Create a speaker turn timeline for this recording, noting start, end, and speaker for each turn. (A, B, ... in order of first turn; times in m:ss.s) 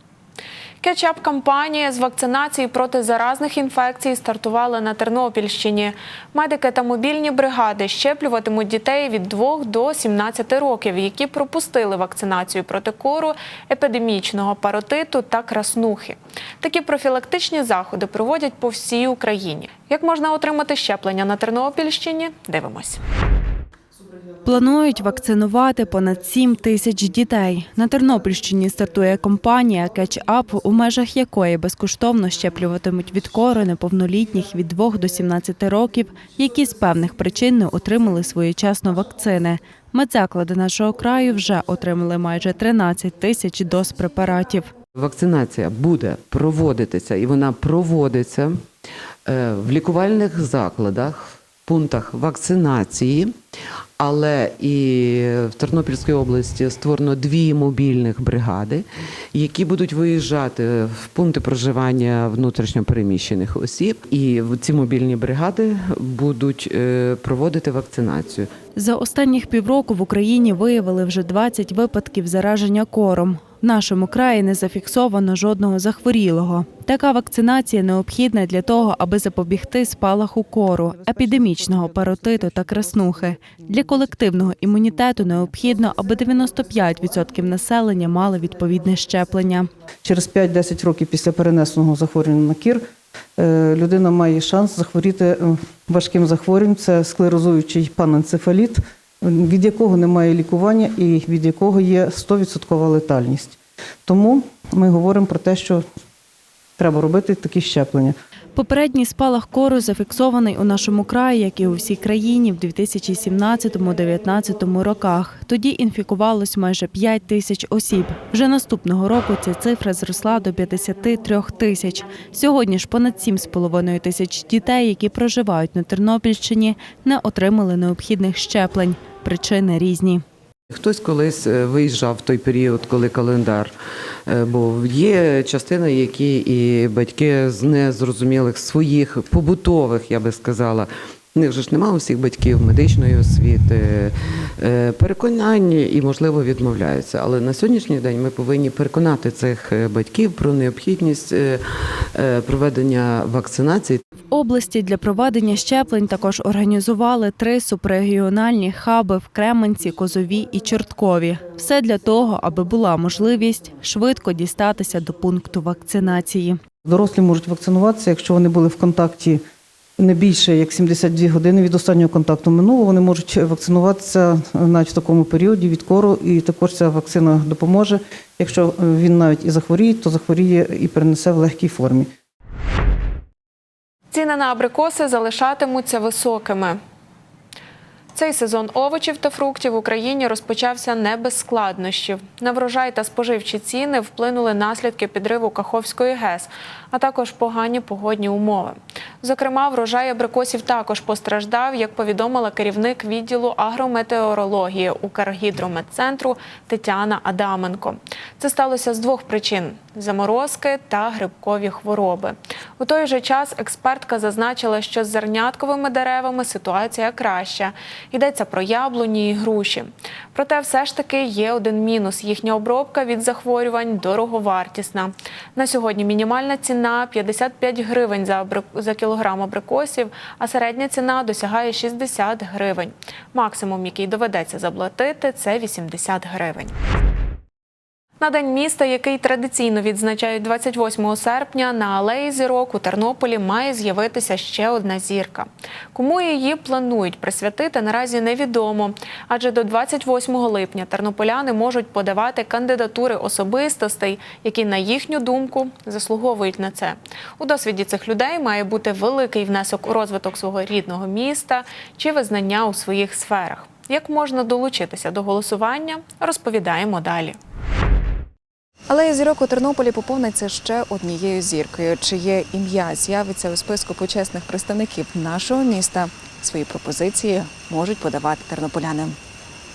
0:00.8-0:23.0 A
0:24.4-0:44.7 B
0:45.0-0:48.6 C
0:49.2-0:53.3 C
0:54.0-1:08.5 C
1:08.8-1:29.7 B
1:30.0-1:32.8 D
1:33.4-1:45.8 D
1:46.8-1:48.2 D
1:48.6-2:10.2 B
2:10.7-2:13.7 C
2:14.3-2:34.0 C
2:34.3-2:46.6 B
2:46.8-2:49.4 D
2:50.0-3:02.1 D
3:04.1-3:06.8 A
3:08.2-3:56.7 A
3:58.2-4:27.4 A
4:28.9-4:39.2 E